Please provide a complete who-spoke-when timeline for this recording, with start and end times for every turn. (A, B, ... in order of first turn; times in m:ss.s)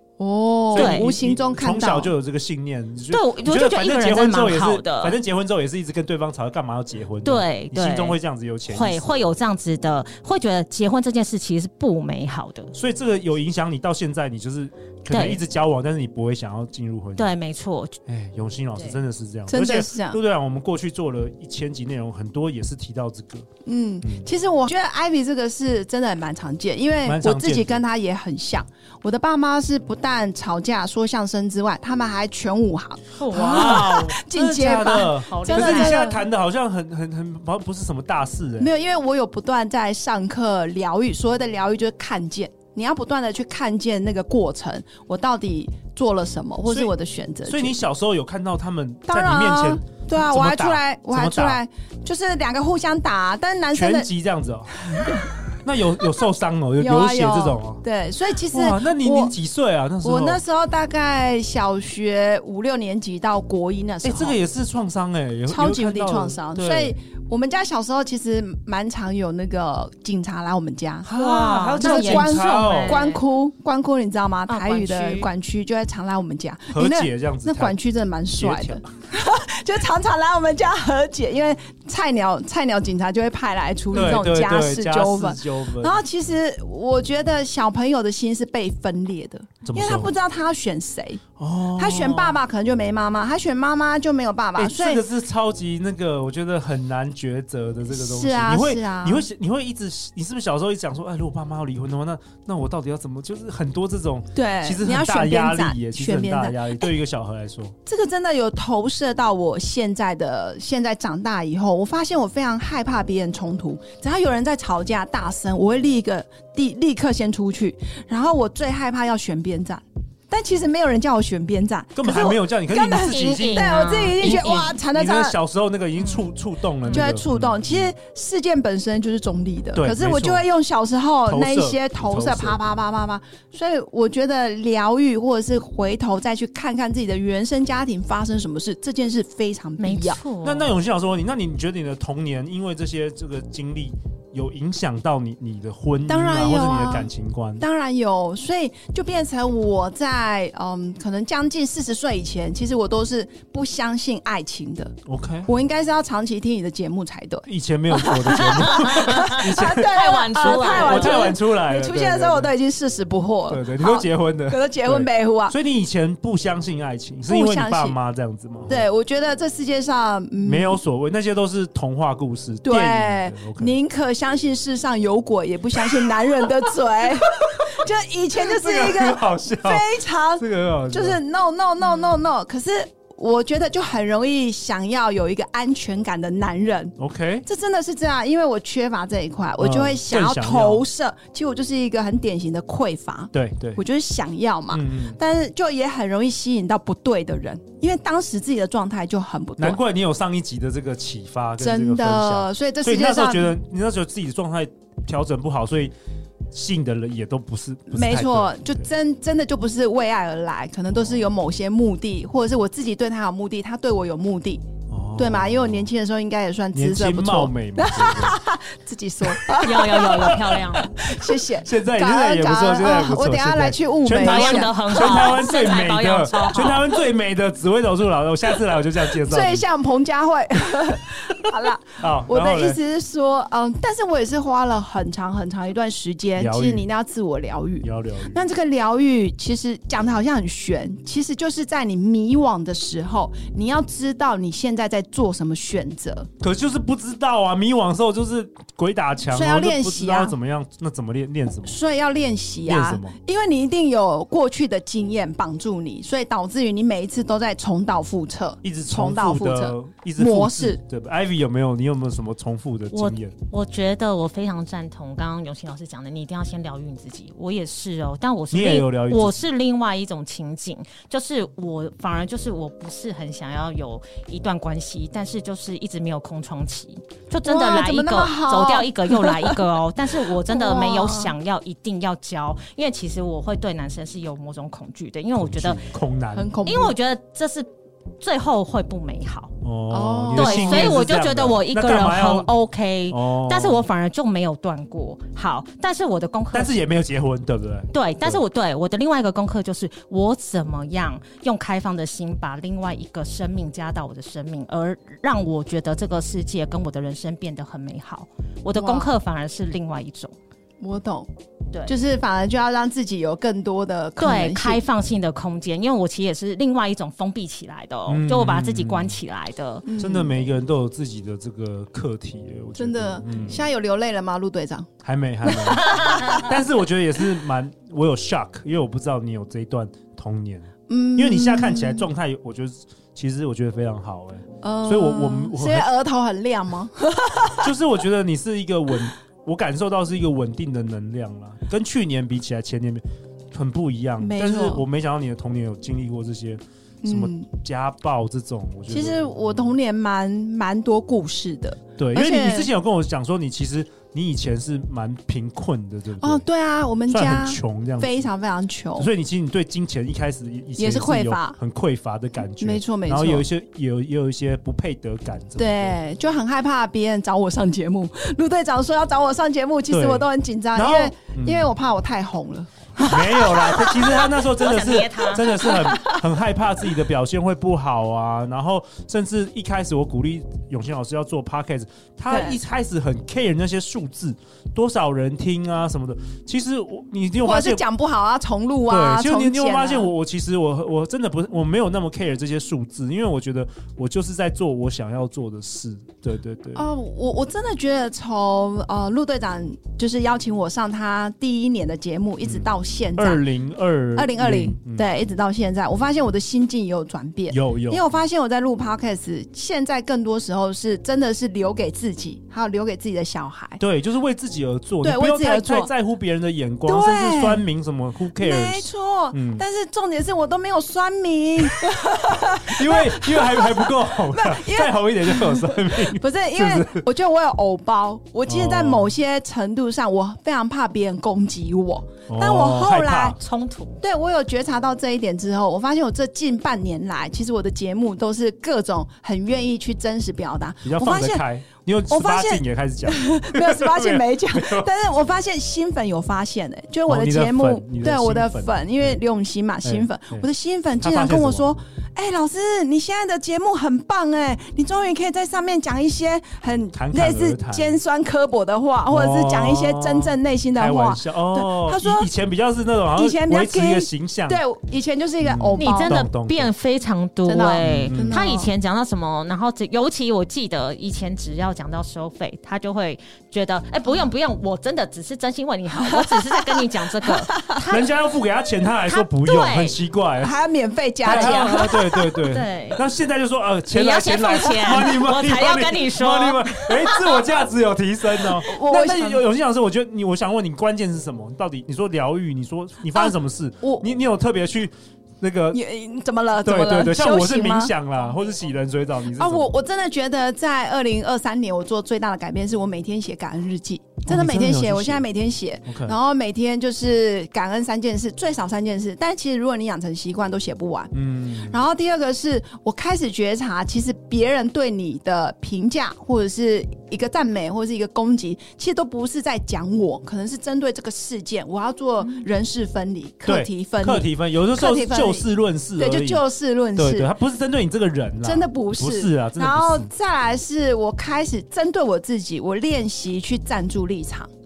0:00.2-0:02.1 A
0:00.7-0:09.2 B
0:00.7-0:01.1 C
0:03.1-0:05.2 C
0:07.2-0:08.2 C
0:08.7-0:12.7 C
0:12.7-0:17.3 B
0:15.1-0:15.4 C
0:17.2-0:18.0 C
0:18.1-0:23.5 B
0:19.5-0:20.2 A
0:23.6-0:36.2 A
0:24.0-0:24.3 B
0:27.0-0:27.8 B
0:33.1-0:34.1 C
0:33.3-0:38.7 B
0:35.0-0:36.0 C
0:38.6-0:47.8 A
0:47.4-0:51.6 B
0:49.1-0:54.1 A
0:53.7-0:55.1 B
0:54.9-0:55.2 A
0:55.6-0:57.8 B
0:56.8-0:59.3 A
0:58.5-1:00.4 B
1:00.0-1:04.4 A
1:04.0-1:06.9 B
1:05.5-1:11.1 A
1:11.0-1:13.0 B
1:11.1-1:13.2 C
1:11.8-1:31.2 A
1:14.5-1:15.3 C
1:16.7-1:17.8 B
1:18.4-1:18.8 B
1:23.9-1:26.0 B
1:29.6-1:30.1 B
1:31.4-1:32.4 B
1:31.8-1:35.0 A
1:34.6-1:47.7 B
1:37.9-1:39.2 A
1:44.3-1:46.9 A
1:47.8-2:05.4 A
2:02.0-2:07.9 B
2:03.0-2:04.8 C
2:06.9-2:20.2 A
2:09.7-2:10.4 B
2:11.2-2:12.6 B
2:19.8-2:20.7 C
2:20.4-2:27.6 B
2:26.1-2:34.9 A
2:35.0-2:35.5 B
2:35.4-2:45.5 A
2:37.4-2:42.5 B
2:38.4-2:41.4 C
2:43.5-2:48.8 B
2:47.3-2:48.0 A
2:48.7-2:50.8 A
2:50.4-2:53.7 B
2:52.6-3:19.8 A
2:58.4-3:01.2 B
3:07.0-3:07.4 B
3:09.6-3:10.8 B
3:13.3-3:13.8 B
3:14.7-3:15.2 B
3:19.6-3:25.9 B
3:21.6-3:23.6 A
3:26.5-3:28.9 B
3:27.9-3:34.6 A
3:34.9-3:35.9 B
3:35.2-3:45.4 A
3:36.7-3:38.4 B
3:39.5-3:49.6 B
3:39.5-3:40.9 C
3:44.1-3:46.9 C
3:49.2-4:06.3 A
3:51.3-3:52.8 B
3:56.4-3:56.9 B
3:57.8-3:58.4 B
4:06.4-4:11.8 B
4:09.3-4:10.3 A
4:11.6-4:20.8 A
4:12.6-4:13.2 B
4:18.6-4:23.3 B
4:22.9-4:45.8 C
4:28.5-4:29.4 B
4:37.4-4:39.6 A
4:40.2-4:41.3 A
4:45.3-4:46.5 B
4:46.3-4:46.9 A
4:46.6-4:47.7 C
4:48.2-4:49.5 C
4:49.6-4:52.5 B
4:49.9-4:51.0 A
4:50.4-4:56.8 C
4:53.1-4:53.8 B
4:56.5-4:58.4 B
4:57.9-5:10.3 C
5:08.7-5:09.1 A
5:10.8-5:11.3 A
5:11.8-5:14.8 A
5:14.2-5:19.9 C
5:18.1-5:19.2 B
5:19.8-5:20.4 A
5:20.0-5:23.6 B
5:22.8-5:24.9 A
5:25.0-5:35.9 B
5:25.4-5:26.4 A
5:30.9-5:32.1 A
5:34.6-5:37.7 A
5:37.6-5:49.7 B
5:44.2-5:44.8 A
5:47.0-5:47.5 A
5:48.9-5:52.7 A
5:52.0-5:56.4 B
5:56.2-5:59.1 A
5:57.1-5:58.2 B
5:59.0-6:06.0 B
6:00.8-6:01.6 A
6:02.6-6:03.5 A
6:05.6-6:14.3 A
6:09.9-6:11.7 B
6:13.0-6:27.8 B
6:14.0-6:15.7 C
6:15.4-6:16.2 A
6:22.3-6:22.6 A
6:27.4-6:30.1 A
6:28.9-6:36.8 B
6:36.7-6:43.4 A
6:42.4-6:45.1 B
6:44.1-6:53.8 A
6:47.5-6:48.0 B
6:53.8-6:59.6 B
6:55.0-6:55.9 A
6:56.8-6:57.6 A
6:58.4-7:13.4 A
7:02.4-7:07.0 B
7:08.4-7:09.1 B
7:12.3-7:13.4 B
7:13.4-7:14.0 C
7:14.0-7:21.4 A
7:20.8-7:24.9 B
7:22.1-7:42.3 A
7:27.1-7:29.2 B
7:29.8-7:30.4 B
7:31.0-7:31.7 B
7:36.9-7:38.0 B
7:39.1-7:44.6 B
7:43.1-7:46.3 A
7:45.4-7:46.7 B
7:45.8-7:58.0 C
7:47.4-7:48.7 A
7:47.8-7:48.4 B
7:56.0-7:57.8 A
7:57.8-8:00.5 B
7:59.1-8:00.0 C
8:00.4-8:02.3 A
8:01.2-8:15.8 B
8:01.2-8:03.0 C
8:03.9-8:07.4 C
8:08.6-8:09.4 A
8:08.9-8:09.4 C
8:13.1-8:14.0 A
8:15.7-8:17.9 A
8:16.6-8:19.7 B
8:19.3-8:47.3 A
8:24.2-8:25.2 B
8:25.8-8:26.2 B
8:31.1-8:31.8 B
8:43.4-8:46.4 B
8:47.0-8:50.1 B
8:48.4-8:54.5 A